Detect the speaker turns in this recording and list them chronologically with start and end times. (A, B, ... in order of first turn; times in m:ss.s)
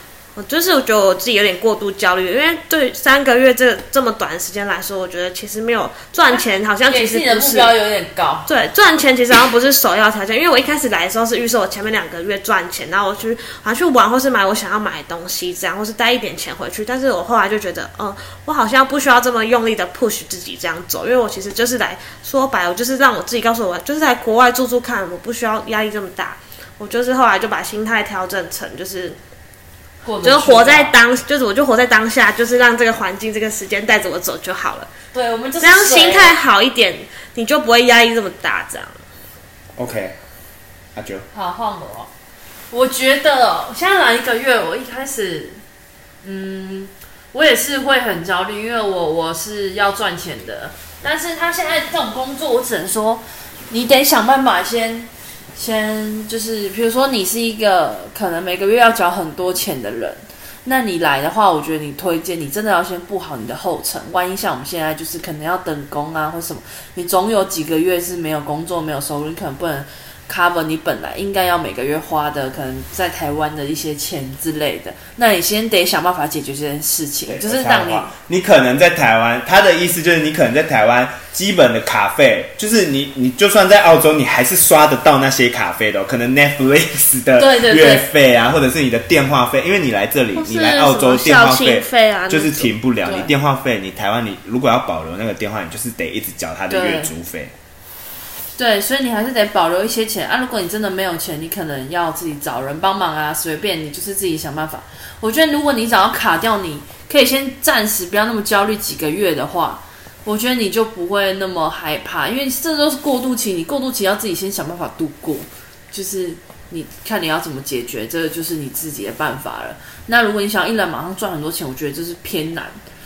0:00.4-0:07.7 A
0:06.3-0:08.5 B
0:08.4-0:29.2 A
0:30.0-0:30.9 B
0:30.2-0:34.9 A
0:35.1-0:36.3 B
0:35.6-0:39.0 A
0:39.8-0:40.2 C
0:40.9-0:41.2 C
0:41.3-0:42.1 B
0:42.7-0:45.6 B
0:46.2-1:18.1 B
1:17.3-1:37.5 C
1:27.4-1:28.1 B
1:30.3-1:32.7 A
1:33.0-1:33.3 B
1:36.7-1:37.1 B
1:38.6-2:02.8 B